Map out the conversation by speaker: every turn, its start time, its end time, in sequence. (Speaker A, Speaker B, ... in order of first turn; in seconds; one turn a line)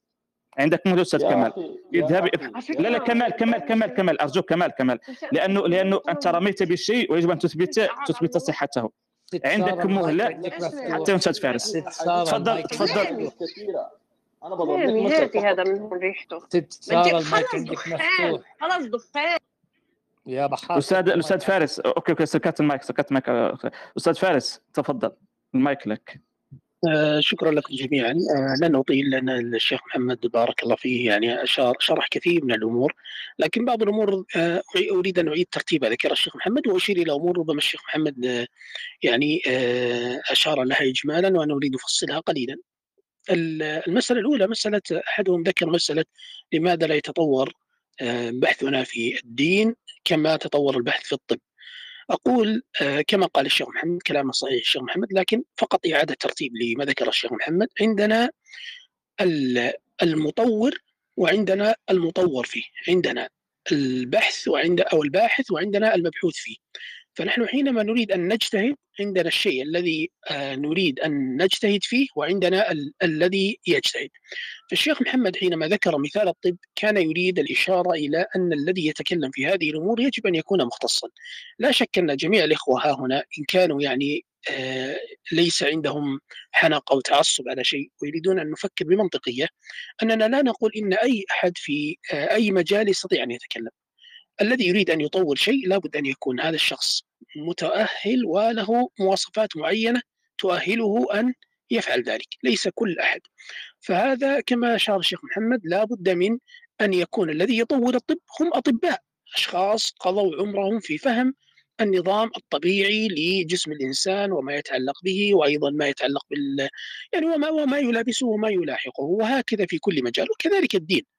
Speaker A: 0.6-8.9
Speaker B: 1.2-3.3
Speaker C: 2.5-4.0
Speaker C: 5.1-6.5
Speaker C: 7.7-8.5
Speaker D: 9.4-11.2
Speaker A: 9.4-13.1
Speaker B: 10.3-13.8
Speaker C: 10.5-12.0
Speaker D: 12.0-13.3
Speaker C: 12.7-13.3
Speaker B: 14.4-15.7
Speaker C: 14.7-19.4
Speaker D: 16.5-18.4
Speaker D: 20.3-21.5
Speaker A: 20.8-26.2
Speaker E: 26.9-38.3
Speaker E: 39.1-42.6
Speaker E: 43.4-47.5
Speaker E: 48.0-51.4
Speaker E: 52.1-58.2
Speaker E: 59.2-66.6
Speaker E: 67.2-74.1
Speaker E: 74.7-81.1
Speaker E: 81.6-89.5
Speaker E: 90.0-93.7
Speaker E: 94.4-103.2
Speaker E: 103.8-111.3
Speaker E: 111.8-116.7
Speaker E: 117.2-121.0